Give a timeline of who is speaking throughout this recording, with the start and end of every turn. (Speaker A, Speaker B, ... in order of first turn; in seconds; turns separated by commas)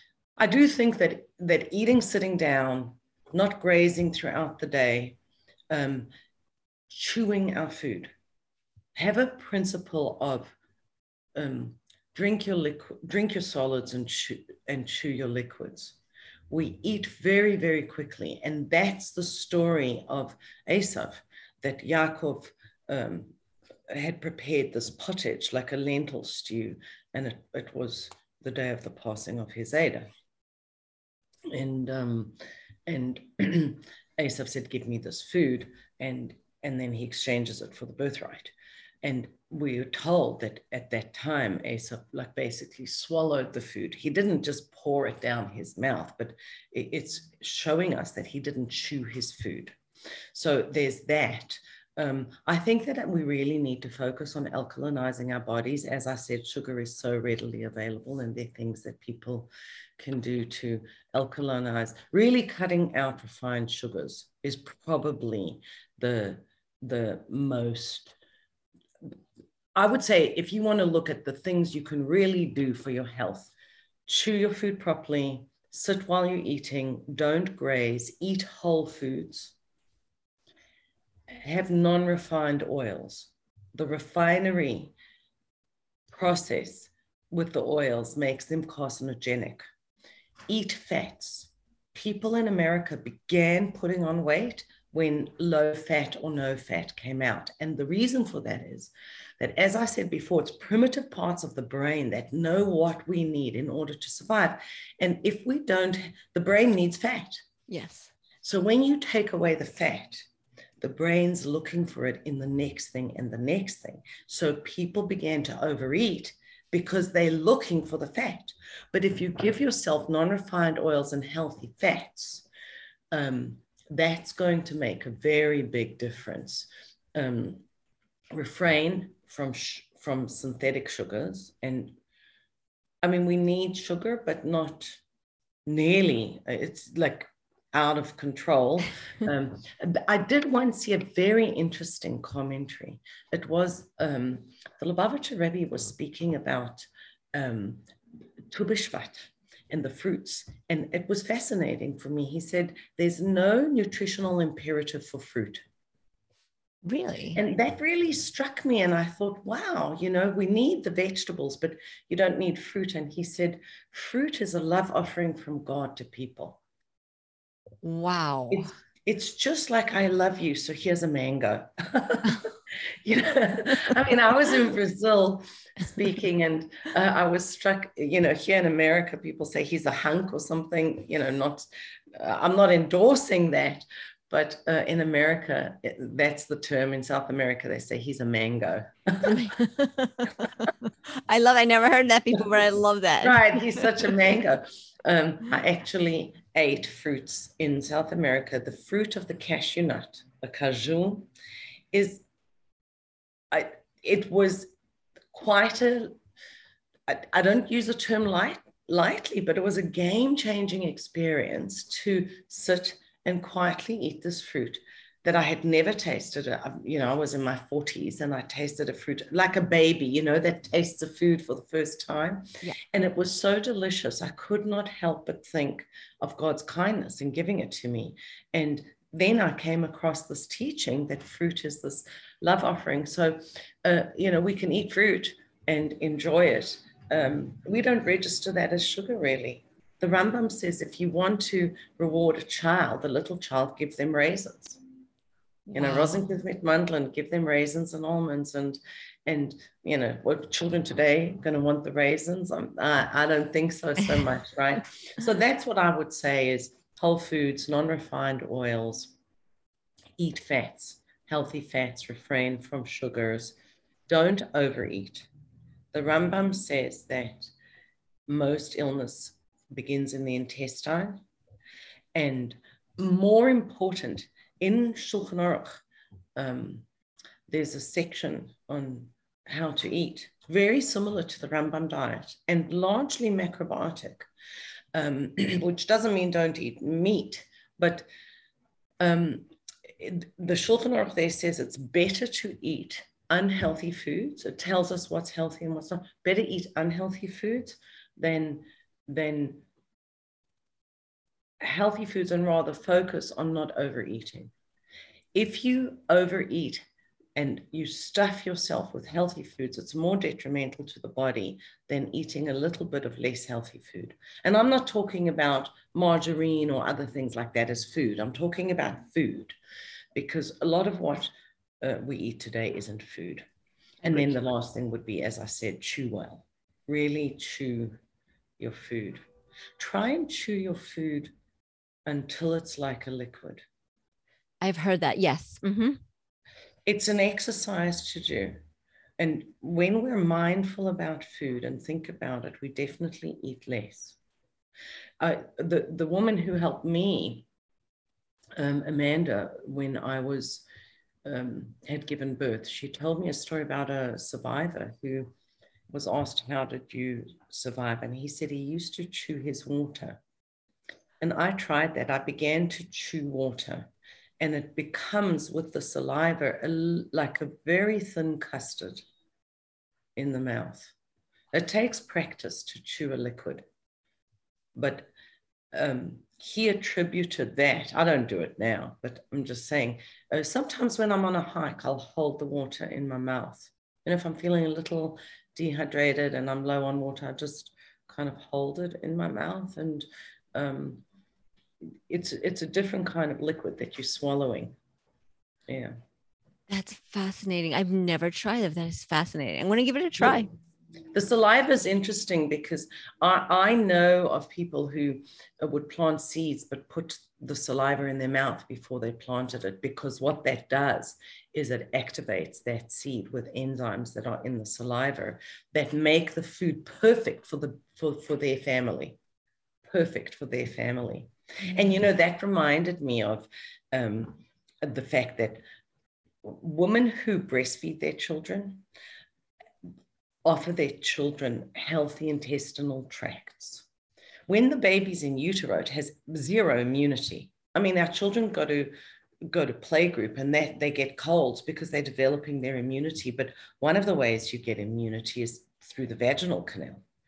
Speaker A: 0.4-5.2, Speaker A: 5.7-6.1, Speaker A: 6.9-8.1, Speaker A: 8.9-10.6, Speaker A: 11.4-16.0, Speaker A: 16.5-23.3, Speaker A: 23.9-30.1, Speaker A: 31.5-32.4, Speaker A: 32.9-49.8, Speaker A: 50.3-68.2, Speaker A: 69.8-73.5, Speaker A: 74.1-79.5, Speaker A: 81.3-84.9, Speaker A: 86.1-89.6, Speaker A: 90.5-107.4, Speaker B: 107.7-108.1, Speaker A: 108.4-110.3, Speaker A: 110.8-122.5, Speaker A: 123.1-127.6, Speaker A: 128.3-131.9, Speaker A: 133.0-135.0, Speaker A: 135.7-147.8, Speaker A: 148.5-155.6, Speaker B: 156.8-157.4, Speaker A: 157.3-166.6, Speaker B: 167.8-168.7, Speaker A: 168.5-172.5, Speaker A: 173.0-189.4, Speaker B: 189.2-193.9, Speaker A: 193.2-201.3, Speaker A: 201.9-202.2, Speaker A: 203.5-204.7, Speaker A: 205.3-206.2, Speaker A: 207.1-244.8, Speaker B: 245.7-246.3, Speaker A: 245.7-259.1, Speaker A: 260.2-263.6, Speaker A: 264.1-265.3, Speaker A: 265.9-267.5, Speaker A: 268.3-271.2, Speaker A: 272.1-275.8, Speaker A: 276.4-276.9, Speaker A: 277.5-284.3, Speaker A: 284.9-288.1, Speaker A: 289.0-299.6, Speaker A: 301.6-304.5, Speaker A: 305.3-306.8, Speaker A: 307.4-319.6, Speaker A: 320.1-323.5, Speaker B: 324.0-324.5, Speaker A: 324.0-328.0, Speaker A: 328.6-329.2, Speaker A: 329.8-331.3, Speaker A: 332.1-333.6, Speaker B: 334.6-336.0, Speaker A: 336.9-338.6, Speaker A: 339.2-344.2, Speaker A: 345.2-347.5, Speaker A: 348.6-350.6, Speaker A: 351.2-355.3, Speaker A: 355.9-360.2, Speaker A: 361.2-369.1, Speaker A: 370.2-370.9, Speaker A: 371.5-373.6, Speaker A: 374.8-375.1, Speaker A: 375.7-391.0, Speaker A: 392.1-394.8, Speaker A: 395.7-395.9, Speaker B: 396.7-400.5, Speaker A: 400.2-400.5, Speaker A: 401.1-419.2, Speaker A: 419.9-425.6, Speaker A: 426.4-428.8, Speaker A: 430.4-433.9, Speaker A: 434.5-438.9, Speaker A: 439.5-447.0